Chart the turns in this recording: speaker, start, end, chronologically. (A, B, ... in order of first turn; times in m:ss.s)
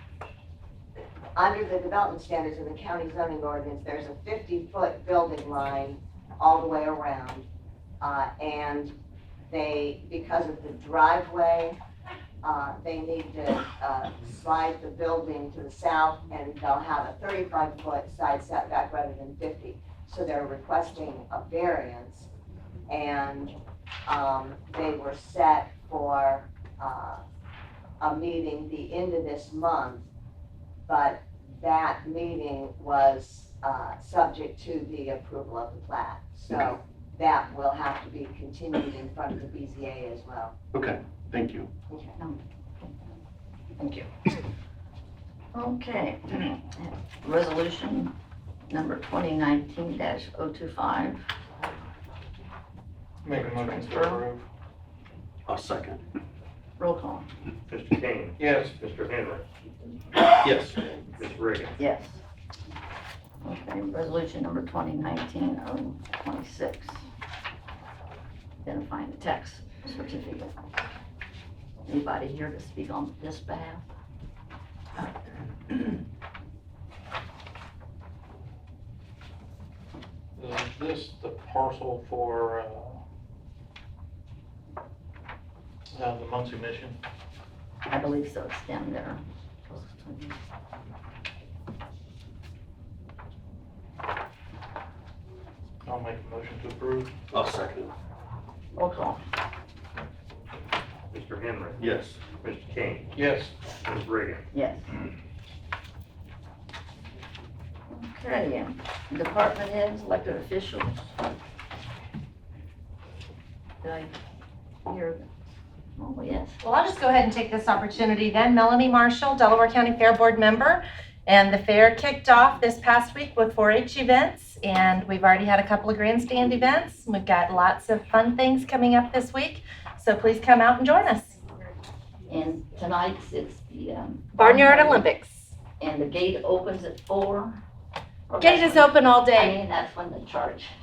0:01.4-0:07.5 A
0:08.0-0:08.9 A
0:09.5-0:11.8 A
0:12.4-0:22.3 A
0:22.9-0:23.6 A
0:24.1-0:27.2 A
0:28.0-0:30.1 A
0:30.9-0:40.5 A
0:40.7-0:41.7 B
0:41.9-0:42.2 A
0:42.2-0:42.9 C
0:43.8-0:44.1 C
0:45.5-0:48.1 C
0:48.7-0:51.2 C
0:53.2-0:54.5 D
0:53.4-0:54.2 C
0:55.5-0:56.0 B
0:56.8-0:57.3 C
0:57.7-0:59.4 E
0:58.4-0:58.8 D
1:00.4-1:00.8 B
1:01.2-1:01.7 E
1:01.8-1:02.2 C
1:03.4-1:07.0 C
1:08.6-1:10.5 C
1:11.9-1:13.8 C
1:20.4-1:23.0 D
1:25.9-1:27.0 D
1:27.9-1:30.4 C
1:35.8-1:37.2 D
1:37.3-1:37.9 B
1:38.8-1:39.2 C
1:41.1-1:41.8 E
1:41.8-1:42.2 B
1:42.4-1:43.1 E
1:43.2-1:43.6 D
1:43.8-1:44.5 E
1:44.5-1:44.9 C
1:47.9-1:51.1 C
1:53.8-1:54.2 C
1:54.8-1:55.4 C
1:56.0-1:56.6 C
1:56.6-2:11.4 F
2:12.3-2:15.0 C
2:14.3-2:15.6 F
2:15.8-2:17.5 C
2:18.3-2:20.7 C
2:18.4-2:19.6 F